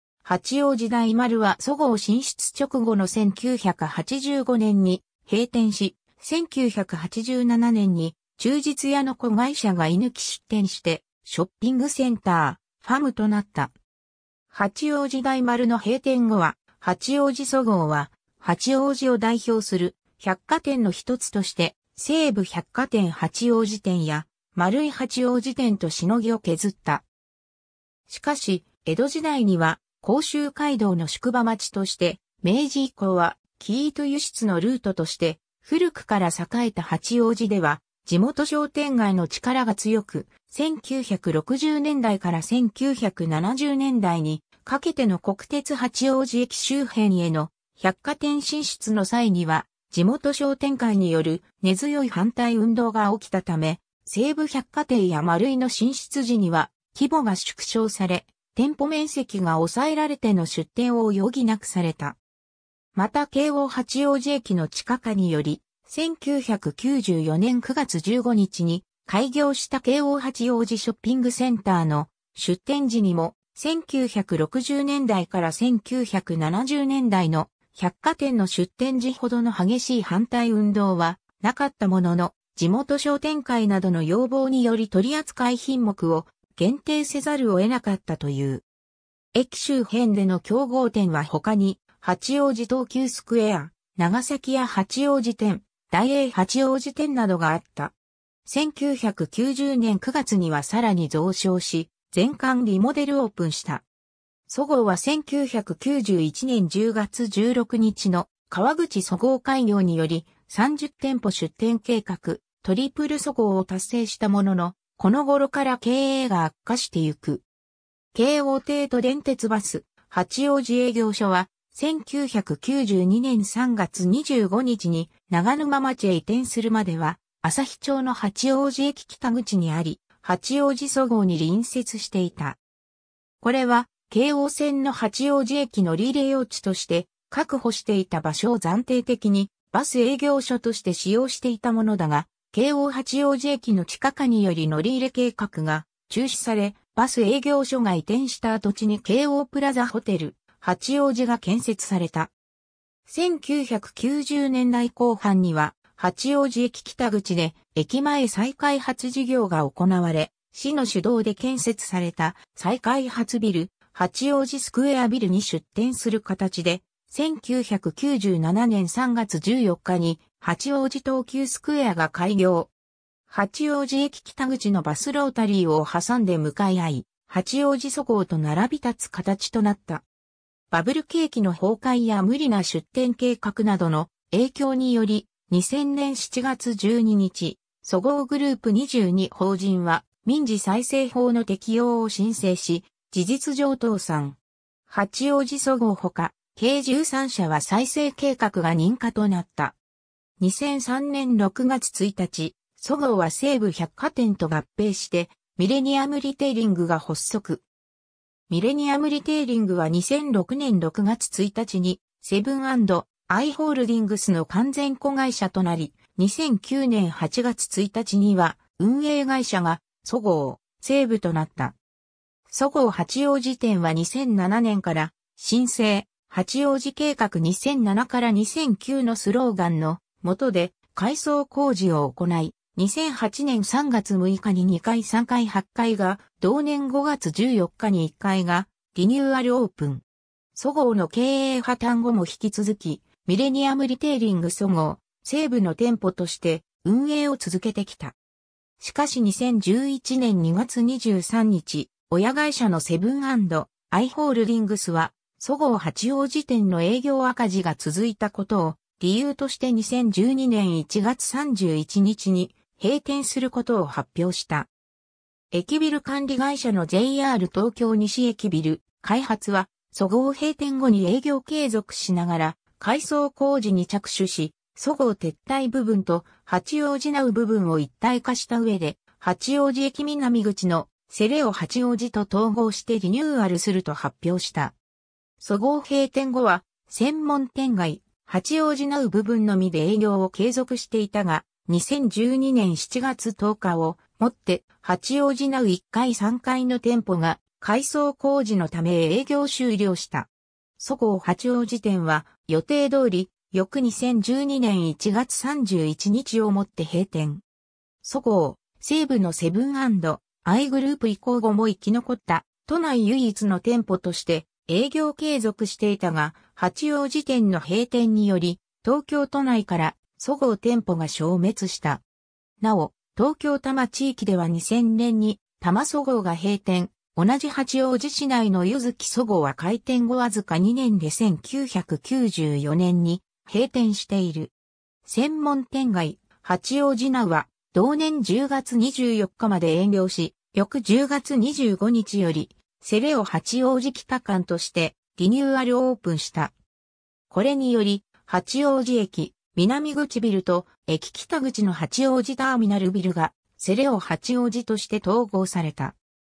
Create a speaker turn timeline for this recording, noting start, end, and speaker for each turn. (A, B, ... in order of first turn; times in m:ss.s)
0:00.2-0:13.7 A
0:14.5-0:27.0 A
0:28.1-1:02.2 A
1:02.9-1:28.6 A
1:29.3-1:37.9 A
1:38.4-1:43.8 A
1:44.5-1:57.4 A
1:58.1-2:12.6 A
2:13.4-2:32.3 A
2:33.1-2:52.7 A
2:53.3-3:00.0 A
3:00.7-3:14.4 A
3:14.9-3:19.8 A
3:20.4-3:27.6 A
3:28.5-3:41.7 A
3:42.5-4:00.0 A
4:00.5-4:08.1 A
4:08.8-4:24.7 A
4:25.5-4:44.7 A
4:45.4-5:00.3 A
5:00.8-5:07.4 A
5:08.0-5:22.0 A
5:22.6-5:34.5 A
5:35.0-5:46.5 A
5:47.3-5:55.9 A